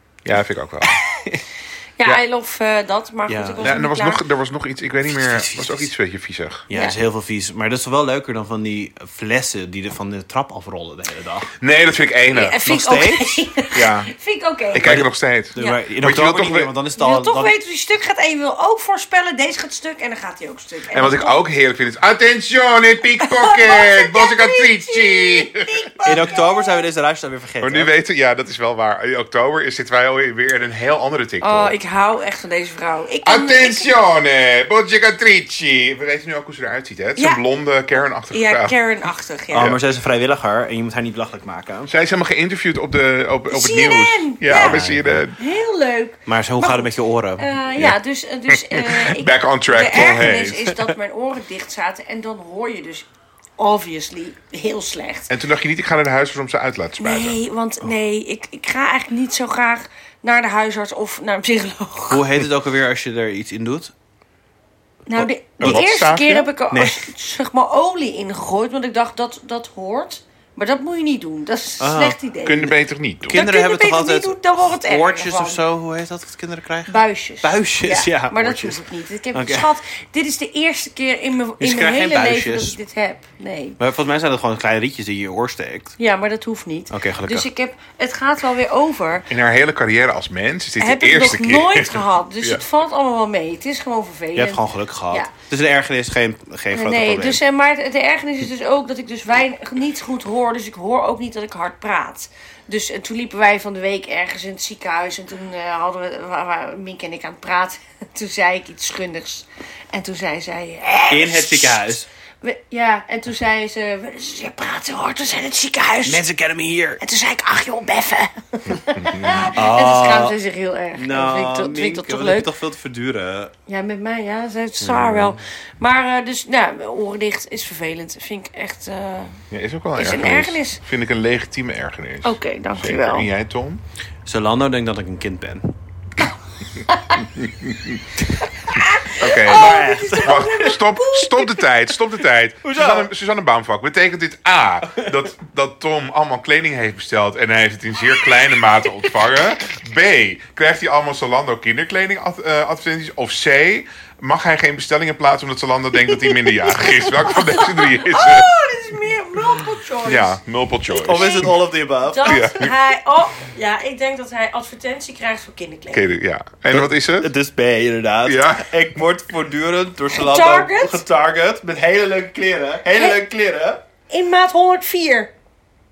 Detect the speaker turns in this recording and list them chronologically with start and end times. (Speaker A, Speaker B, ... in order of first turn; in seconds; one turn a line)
Speaker A: 0.2-0.9
Speaker B: 2.0-4.2
Speaker C: 3.3-3.7
Speaker A: 3.6-6.7
Speaker C: 5.1-5.9
Speaker C: 6.7-11.5
Speaker B: 6.7-7.0
Speaker A: 11.6-12.6
Speaker B: 12.3-14.9
Speaker C: 12.6-14.0
Speaker A: 13.8-14.1
Speaker A: 14.7-16.7
Speaker C: 14.8-17.5
Speaker B: 15.6-15.8
Speaker B: 16.9-21.4
Speaker A: 20.9-26.3
Speaker B: 23.2-26.9
Speaker C: 26.0-27.9
Speaker A: 27.6-31.7
Speaker B: 31.4-33.9
Speaker A: 33.2-38.8
Speaker B: 37.2-37.4
Speaker B: 38.3-39.8
Speaker C: 39.5-41.9
Speaker A: 39.5-39.8
Speaker A: 41.9-45.4
Speaker B: 43.5-44.8
Speaker C: 44.5-45.2
Speaker B: 45.4-53.1
Speaker C: 46.3-47.5
Speaker A: 48.5-50.7
Speaker C: 50.0-50.3
Speaker B: 53.6-55.3
Speaker A: 55.3-57.4
Speaker B: 57.0-62.2
Speaker C: 62.1-63.9
Speaker B: 65.1-72.8
Speaker C: 65.2-65.8
Speaker A: 65.6-66.5
Speaker C: 66.7-67.1
Speaker C: 71.8-72.2
Speaker A: 72.4-73.4
Speaker C: 73.3-79.7
Speaker B: 73.3-75.6
Speaker B: 76.9-83.8
Speaker C: 81.6-82.8
Speaker C: 83.8-86.0
Speaker B: 86.0-89.3
Speaker C: 86.9-87.5
Speaker A: 89.3-92.6
Speaker B: 90.8-95.3
Speaker C: 94.3-97.4
Speaker B: 96.7-111.9
Speaker C: 111.1-112.1
Speaker B: 112.4-116.2
Speaker C: 116.0-117.0
Speaker B: 117.0-122.5
Speaker A: 119.0-119.5
Speaker C: 119.5-120.3
Speaker C: 120.9-123.5
Speaker B: 123.7-129.4
Speaker C: 124.8-125.4
Speaker A: 129.5-133.8
Speaker B: 129.9-130.8
Speaker B: 132.2-133.3
Speaker C: 134.2-135.7
Speaker B: 136.8-137.3
Speaker A: 137.2-138.0
Speaker B: 138.3-141.6
Speaker A: 139.2-158.5
Speaker C: 139.4-140.5
Speaker C: 142.6-143.1
Speaker C: 144.9-145.1
Speaker B: 156.0-160.4
Speaker A: 160.0-161.6
Speaker C: 160.9-162.5
Speaker B: 161.1-161.5
Speaker B: 162.1-166.1
Speaker A: 162.2-162.7
Speaker A: 165.9-167.3
Speaker C: 166.7-173.8
Speaker A: 168.2-169.0
Speaker B: 170.1-171.0
Speaker B: 172.9-173.2
Speaker B: 174.1-175.3